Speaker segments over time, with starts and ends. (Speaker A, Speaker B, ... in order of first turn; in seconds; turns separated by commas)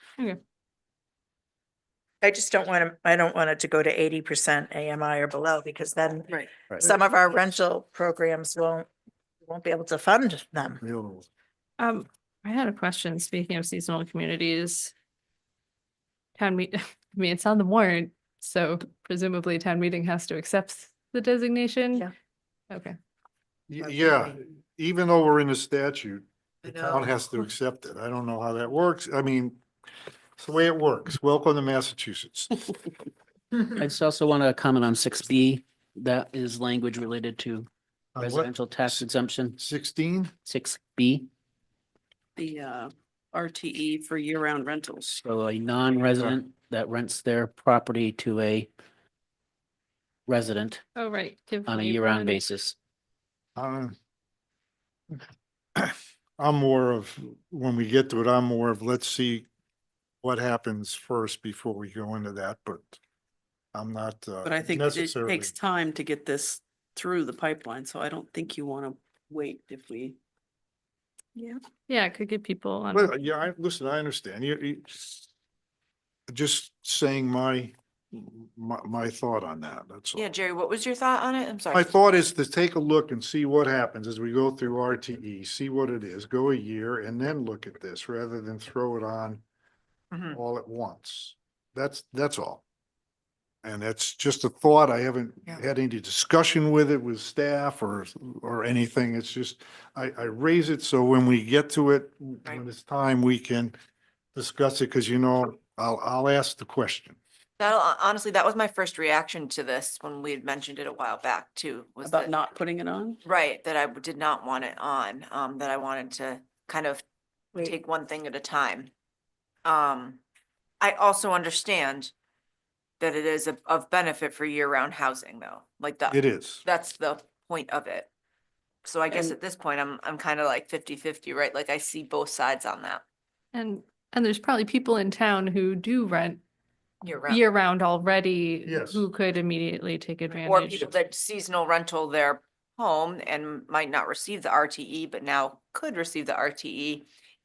Speaker A: 2.2-8.9, Speaker B: 6.7-6.9, Speaker A: 9.4-10.8, Speaker C: 10.8-11.3, Speaker D: 11.8-14.9, Speaker D: 16.4-22.1, Speaker D: 22.7-22.9, Speaker C: 23.7-29.6, Speaker A: 23.8-24.3, Speaker E: 26.6-27.2, Speaker C: 30.4-32.5, Speaker B: 33.8-39.6, Speaker C: 38.2-40.3, Speaker B: 40.5-41.3, Speaker F: 42.4-45.2, Speaker B: 45.2-48.7, Speaker C: 46.1-46.4, Speaker B: 50.3-50.8, Speaker D: 51.0-52.4, Speaker B: 51.7-52.8, Speaker C: 53.6-54.0, Speaker C: 55.8-59.5, Speaker C: 60.2-63.0, Speaker C: 63.7-65.5, Speaker F: 64.4-70.2, Speaker D: 71.9-73.1, Speaker C: 72.9-75.3, Speaker C: 76.3-80.3, Speaker E: 80.2-82.0, Speaker C: 81.7-89.4, Speaker E: 90.1-90.4, Speaker C: 90.3-92.6, Speaker C: 93.6-103.8, Speaker C: 104.3-107.2, Speaker E: 107.6-112.3, Speaker F: 112.0-113.2, Speaker E: 113.2-117.0, Speaker E: 117.6-118.9, Speaker E: 119.7-120.2, Speaker E: 120.8-122.1, Speaker E: 123.0-128.1, Speaker C: 126.1-126.7, Speaker E: 128.8-133.0, Speaker F: 129.1-129.4, Speaker D: 133.5-136.4, Speaker E: 137.0-137.4, Speaker D: 137.3-140.9, Speaker C: 138.7-139.1, Speaker E: 140.4-147.1